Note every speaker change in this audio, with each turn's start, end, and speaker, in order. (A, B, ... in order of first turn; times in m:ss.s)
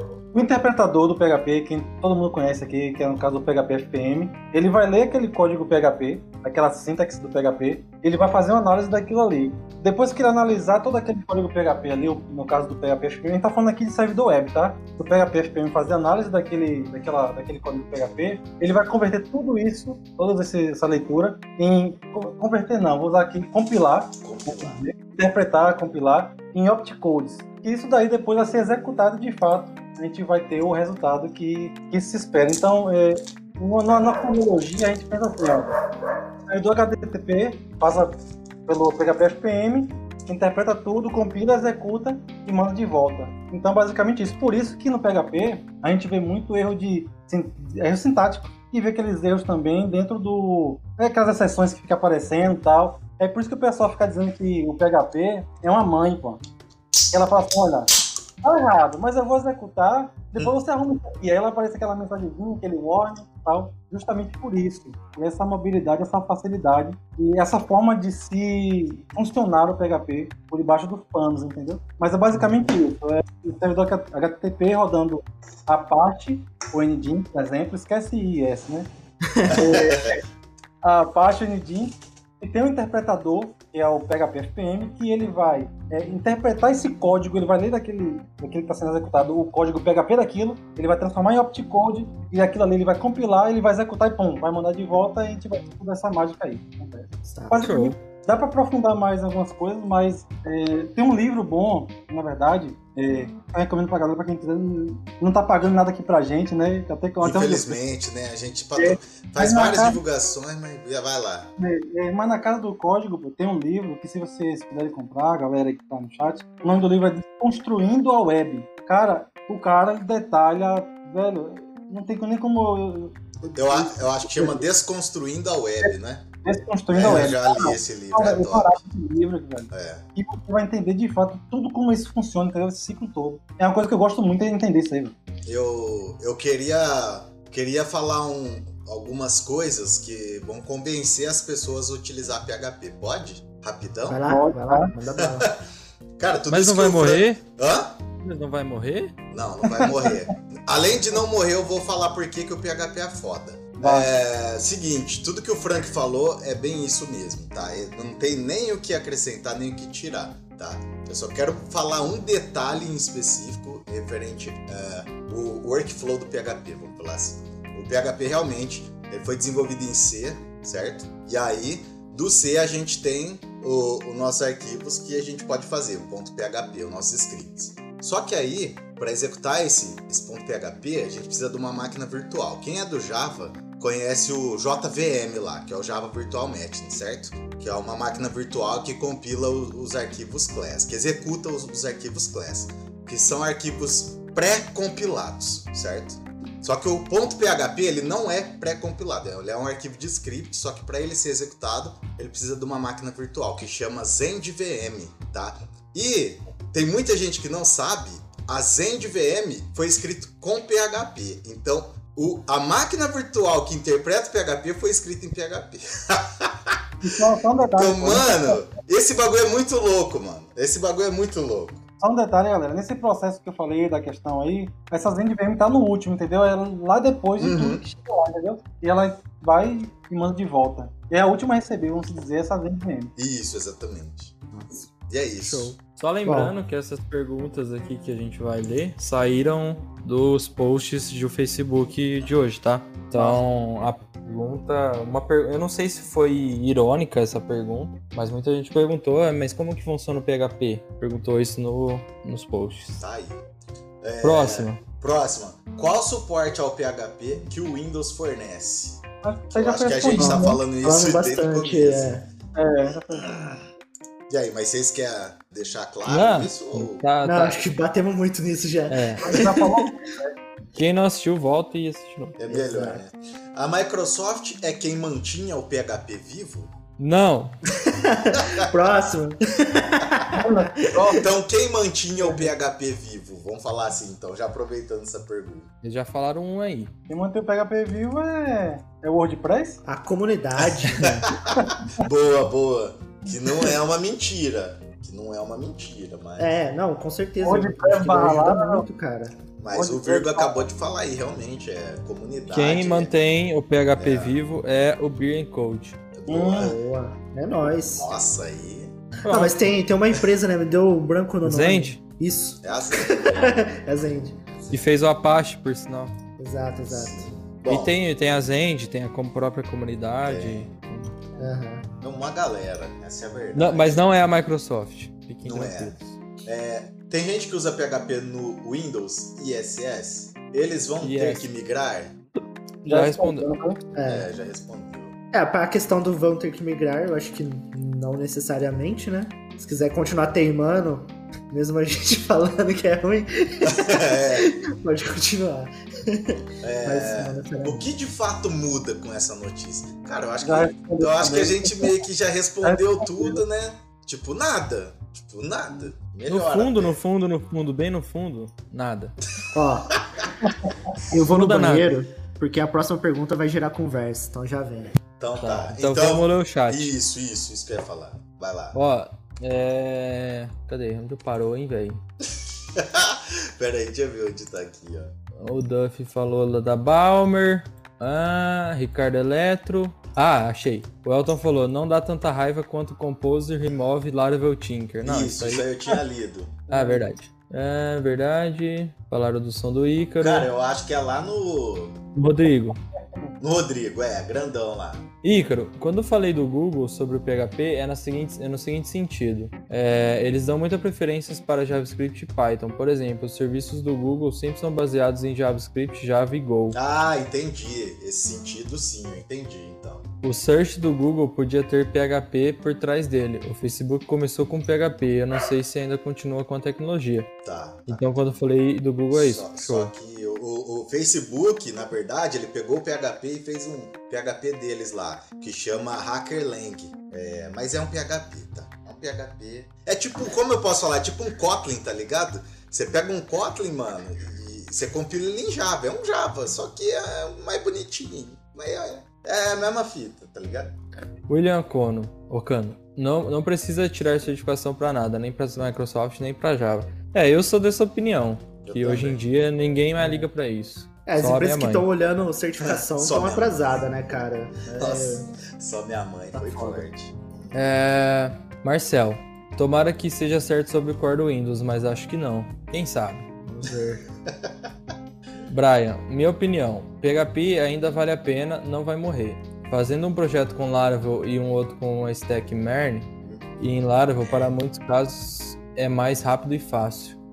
0:00.3-0:35.7 A
0:24.2-0:24.8 B
0:36.5-0:56.4 A
0:57.1-0:57.9 A
0:58.4-1:18.9 A
1:19.3-1:19.6 C
1:19.4-1:20.2 B
1:19.5-1:20.2 A
1:20.8-1:47.8 A
1:37.3-1:37.7 C
1:37.5-1:38.0 D
1:47.2-1:51.5 B
1:48.8-1:50.0 A
1:51.6-2:04.6 A
2:03.5-2:06.3 B
2:06.4-2:15.1 A
2:06.9-2:08.8 B
2:09.7-2:10.0 B
2:15.4-2:24.3 B
2:24.1-2:25.5 C
2:24.3-2:24.9 A
2:25.2-2:25.6 B
2:26.2-2:28.0 B
2:26.5-2:27.4 D
2:28.2-2:29.2 D
2:29.3-3:37.1 B
2:29.6-2:30.2 A
2:33.8-2:34.1 A
3:37.0-3:38.6 A
3:37.6-3:41.8 B
3:42.0-3:53.1 A
3:47.4-3:47.8 B
3:53.2-3:54.4 B
3:54.5-3:54.9 C
3:55.1-3:55.8 B
3:55.4-4:13.0 D
3:56.2-3:56.6 C
4:03.1-4:03.4 A
4:13.0-4:13.4 B
4:14.0-4:22.1 B
4:14.2-4:14.8 D
4:19.2-4:20.6 A
4:20.1-4:22.2 C
4:22.5-4:23.6 A
4:23.1-4:23.6 B
4:24.3-4:27.0 B
4:26.0-4:27.6 D
4:27.2-4:29.8 C
4:28.9-4:29.2 D
4:29.2-4:30.3 A
4:30.7-4:32.4 D
4:32.4-4:36.7 B
4:32.4-4:33.0 C
4:37.0-4:37.6 D
4:37.9-4:41.2 C
4:38.3-4:38.6 B
4:39.8-4:40.3 B
4:40.3-4:41.3 A
4:41.2-4:45.7 B
4:45.8-4:46.9 D
4:47.1-4:49.8 A
4:49.8-4:51.2 C
4:50.6-4:56.5 B
4:56.4-4:59.4 C
4:57.4-4:58.9 A
4:59.6-5:03.1 B
4:59.7-5:00.6 A
5:02.5-5:06.0 D
5:04.0-5:04.4 B
5:06.1-5:06.7 B
5:06.3-5:06.7 A
5:06.6-5:08.1 C
5:07.9-5:09.0 B
5:09.2-5:09.6 D
5:09.3-5:14.4 C
5:11.4-5:12.0 D
5:12.6-5:14.9 B
5:14.7-5:16.1 D
5:16.4-5:17.1 C
5:16.8-5:18.0 B
5:17.6-5:21.1 D
5:20.2-5:20.8 B
5:21.4-5:21.9 C
5:22.0-5:24.0 B
5:23.5-5:26.2 D
5:25.4-5:32.1 B
5:31.0-5:31.5 D
5:32.9-5:33.8 A
5:32.9-5:33.5 D
5:33.9-5:34.3 C
5:34.0-5:35.2 B
5:35.3-5:47.9 C
5:43.6-5:44.5 B
5:46.6-5:57.0 B
5:50.4-5:51.9 A
5:52.6-5:53.4 A
5:56.3-5:59.2 D
5:59.5-6:00.0 C
6:00.0-6:00.3 B
6:01.1-6:05.0 C
6:01.2-6:01.9 D
6:05.1-6:08.8 B
6:05.4-6:06.9 D
6:08.7-6:12.0 D
6:12.8-6:15.1 B
6:15.4-6:25.6 D
6:25.0-6:26.6 B
6:26.7-6:27.1 A
6:26.7-6:30.5 D
6:30.2-6:32.1 B
6:32.2-6:32.8 D
6:33.4-6:35.1 B
6:35.2-6:46.8 D
6:46.7-6:50.1 B
6:50.2-6:57.3 D
6:57.4-6:58.2 B
6:57.9-6:59.9 D
6:59.1-7:20.7 B
7:21.3-7:31.9 D
7:28.6-7:29.2 B
7:31.0-7:35.3 C
7:32.6-7:37.7 B
7:36.3-7:36.8 C
7:37.5-7:43.2 D
7:43.4-7:44.0 C
7:44.2-7:44.5 B
7:45.5-7:57.2 D
7:53.2-7:53.6 B
7:54.2-7:54.5 B